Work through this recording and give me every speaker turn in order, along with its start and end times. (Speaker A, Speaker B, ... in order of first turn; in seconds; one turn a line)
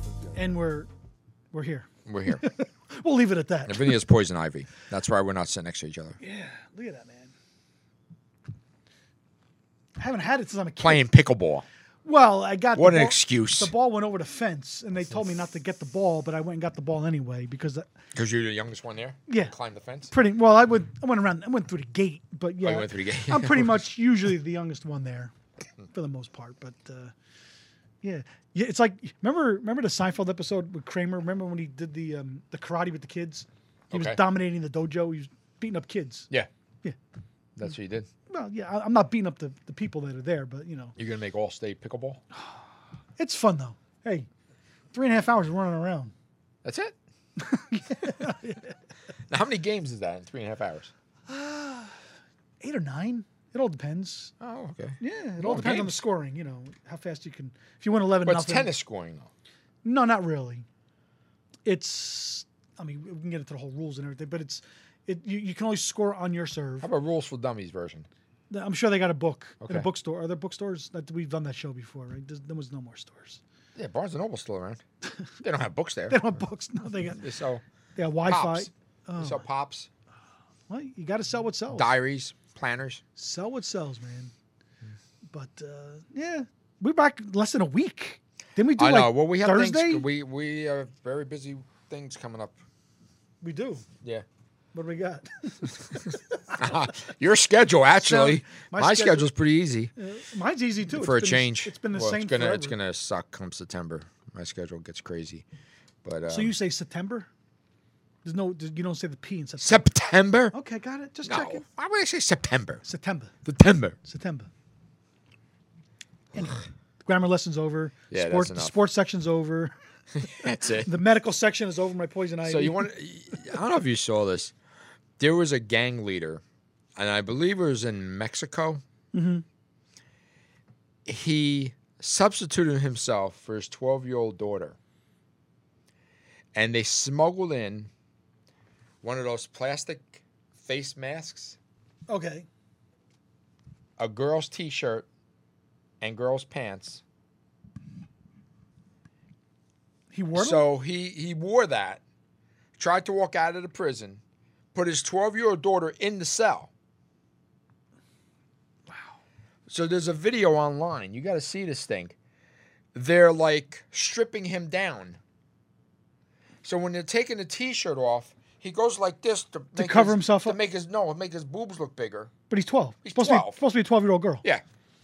Speaker A: 0.3-0.9
Speaker A: 1.5-3.9
Speaker B: 2.0-2.5
Speaker B: 3.6-6.2
Speaker A: 6.2-7.3
Speaker A: 10.0-11.0
Speaker B: 10.8-11.6
Speaker A: 12.0-17.9
Speaker B: 12.8-13.7
Speaker B: 18.1-20.1
Speaker A: 19.3-19.5
Speaker A: 20.1-25.3
Speaker B: 22.6-23.9
Speaker A: 25.9-27.1
Speaker A: 28.0-36.3
Speaker B: 33.9-34.2
Speaker B: 37.5-38.1
Speaker A: 38.3-41.0
Speaker B: 41.0-42.2
Speaker A: 43.2-44.3
Speaker A: 44.9-46.1
Speaker B: 46.6-47.0
Speaker A: 47.4-48.7
Speaker B: 48.0-48.3
Speaker B: 49.3-50.9
Speaker A: 51.3-52.0
Speaker A: 52.6-54.3
Speaker B: 54.4-56.0
Speaker A: 55.0-58.7
Speaker B: 58.2-59.3
Speaker A: 59.8-60.6
Speaker A: 61.6-66.9
Speaker B: 66.8-68.1
Speaker A: 68.5-73.4
Speaker B: 69.6-69.9
Speaker B: 73.8-74.8
Speaker B: 75.4-76.3
Speaker A: 76.1-77.2
Speaker B: 77.1-77.6
Speaker A: 78.0-79.4
Speaker B: 78.2-79.9
Speaker A: 80.7-81.9
Speaker B: 81.7-83.0
Speaker A: 83.2-84.3
Speaker A: 85.3-90.1
Speaker B: 88.8-92.5
Speaker A: 93.4-93.9
Speaker A: 94.7-96.7
Speaker B: 96.5-99.9
Speaker A: 98.0-99.3
Speaker A: 100.0-102.7
Speaker B: 100.9-105.4
Speaker B: 106.0-106.5
Speaker A: 106.3-107.3
Speaker A: 108.2-109.9
Speaker B: 109.6-110.5
Speaker A: 110.5-111.6
Speaker B: 111.2-112.8
Speaker A: 112.8-113.3
Speaker B: 113.4-114.0
Speaker A: 114.0-114.5
Speaker A: 116.3-122.9
Speaker B: 118.1-118.8
Speaker B: 120.2-121.0
Speaker B: 122.4-124.5
Speaker B: 125.2-126.4
Speaker B: 127.0-128.8
Speaker A: 129.1-129.4
Speaker B: 131.1-134.8
Speaker B: 136.5-137.9
Speaker B: 139.0-141.6
Speaker A: 142.1-142.5
Speaker B: 144.0-145.1
Speaker B: 146.0-147.0
Speaker A: 150.1-150.7
Speaker B: 150.3-152.0
Speaker B: 152.8-154.2
Speaker B: 154.7-156.7
Speaker B: 159.7-162.2
Speaker B: 162.9-165.2
Speaker B: 166.6-172.3
Speaker A: 169.7-170.6
Speaker A: 172.5-174.4
Speaker B: 173.0-173.6